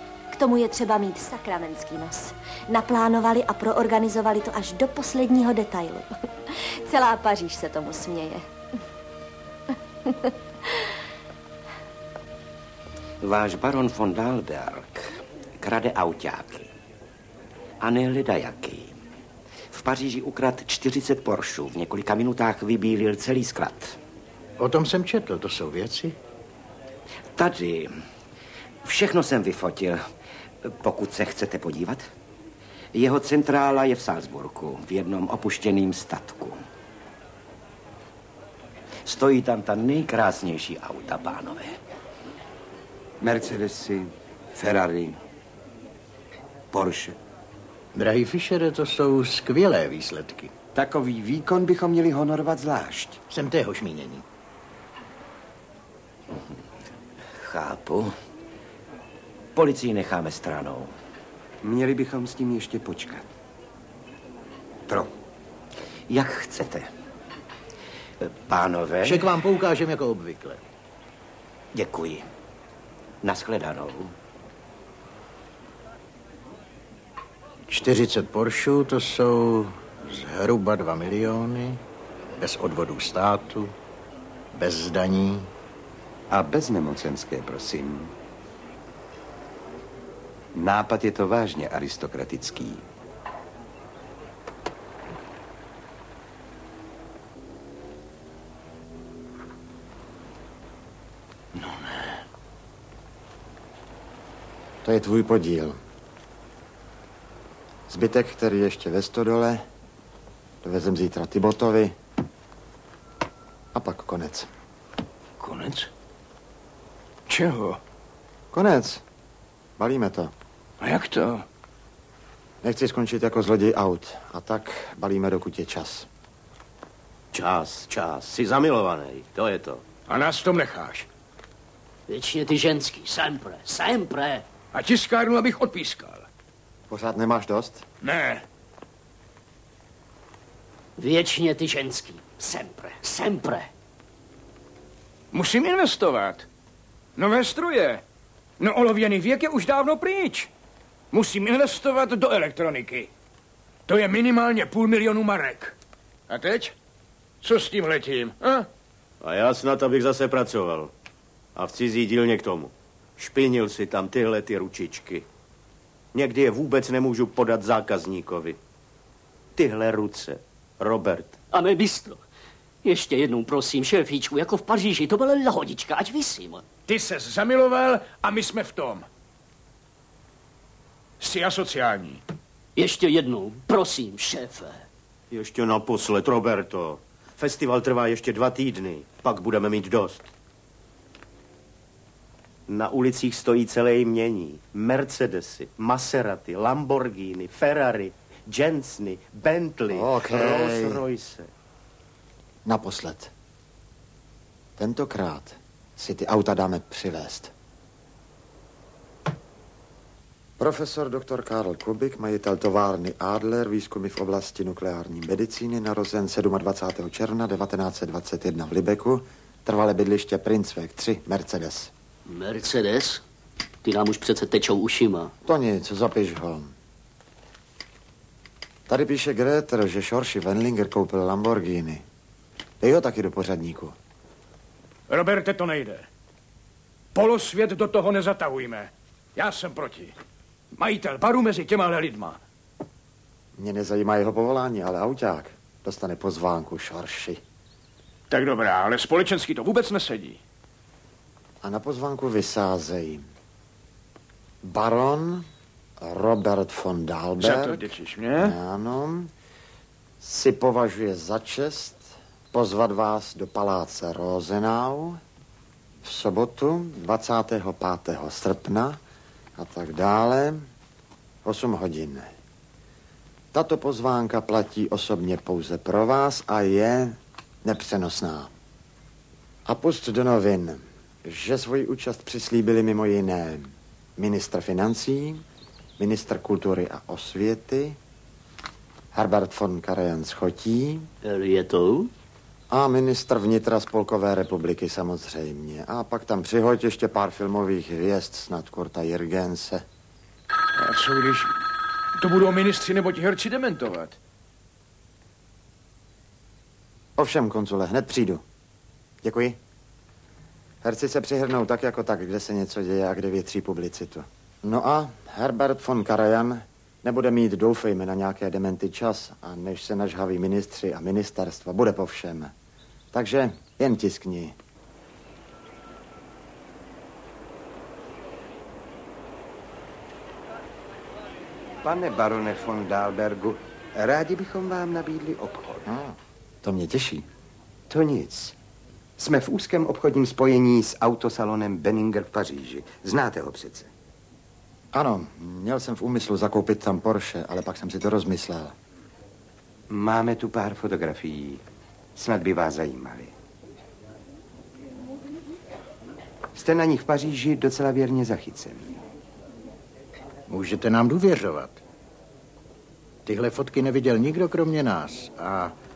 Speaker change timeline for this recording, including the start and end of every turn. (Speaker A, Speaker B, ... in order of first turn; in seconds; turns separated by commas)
Speaker A: 0.3-8.4, Speaker B: 13.2-15.1, Speaker B: 15.6-16.7, Speaker B: 17.8-18.9, Speaker B: 19.7-24.0, Speaker C: 24.6-26.1, Speaker B: 27.4-27.9, Speaker B: 28.8-30.1, Speaker B: 30.6-32.1, Speaker B: 32.9-36.6, Speaker B: 39.0-41.7, Speaker D: 43.2-45.2, Speaker D: 46.7-47.1, Speaker C: 47.9-50.5, Speaker D: 50.7-53.2, Speaker C: 53.3-54.2, Speaker B: 57.4-58.1, Speaker B: 59.5-60.9, Speaker D: 61.6-63.3, Speaker B: 66.1-66.9, Speaker B: 68.2-69.3, Speaker C: 69.0-70.6, Speaker B: 71.7-72.3, Speaker B: 73.2-74.1, Speaker C: 77.7-81.8, Speaker C: 82.4-83.7, Speaker C: 84.5-85.5, Speaker D: 86.3-88.1, Speaker D: 90.5-92.8, Speaker E: 104.8-105.8, Speaker E: 107.9-109.7, Speaker E: 110.6-112.0, Speaker E: 113.7-114.5, Speaker F: 115.4-115.9, Speaker F: 117.3-117.8, Speaker E: 118.5-119.0, Speaker E: 119.8-120.3, Speaker F: 120.8-121.5, Speaker E: 122.6-126.1, Speaker G: 127.3-129.8, Speaker F: 130.1-131.1, Speaker H: 132.1-134.4, Speaker F: 134.7-136.2, Speaker E: 136.9-137.8, Speaker F: 138.0-138.4, Speaker H: 141.0-143.7, Speaker F: 145.3-146.4, Speaker F: 147.2-148.0, Speaker F: 148.6-150.5, Speaker F: 151.1-153.1, Speaker F: 153.9-155.7, Speaker F: 156.3-156.7, Speaker F: 157.4-158.7, Speaker G: 159.2-160.9, Speaker G: 161.6-165.2, Speaker G: 166.1-168.6, Speaker G: 169.6-171.4, Speaker H: 171.5-172.2, Speaker H: 172.8-176.6, Speaker F: 176.9-179.1, Speaker F: 181.2-182.2, Speaker H: 182.8-184.8, Speaker G: 185.3-190.3, Speaker G: 192.7-201.5, Speaker E: 199.9-201.0, Speaker E: 202.6-203.3, Speaker E: 204.8-207.5, Speaker E: 210.6-221.9, Speaker H: 222.3-223.2, Speaker H: 223.8-225.3, Speaker E: 225.4-226.7, Speaker E: 228.9-232.0, Speaker E: 232.8-234.0, Speaker F: 235.1-236.1, Speaker F: 237.1-240.1, Speaker F: 240.7-242.4, Speaker E: 243.6-247.4, Speaker F: 248.3-250.4, Speaker E: 251.6-253.2, Speaker E: 254.6-255.5, Speaker E: 256.0-257.9, Speaker F: 257.4-258.5, Speaker E: 258.4-259.3, Speaker E: 260.2-265.2, Speaker E: 266.0-269.0, Speaker E: 269.6-270.7, Speaker E: 271.4-272.3, Speaker E: 273.5-278.5, Speaker E: 279.6-285.4, Speaker E: 286.0-288.0, Speaker E: 289.1-291.1, Speaker H: 291.2-292.1, Speaker E: 292.7-299.8, Speaker F: 300.8-301.6, Speaker F: 302.1-304.2, Speaker E: 307.2-308.4, Speaker E: 309.2-309.6, Speaker E: 310.8-322.5, Speaker E: 323.1-324.5, Speaker D: 331.8-335.9, Speaker E: 335.9-337.3, Speaker D: 337.9-338.5, Speaker D: 339.2-343.9, Speaker E: 344.9-348.8, Speaker D: 349.9-351.6, Speaker D: 352.1-353.3, Speaker D: 356.5-359.0, Speaker C: 360.5-361.8, Speaker C: 363.2-365.7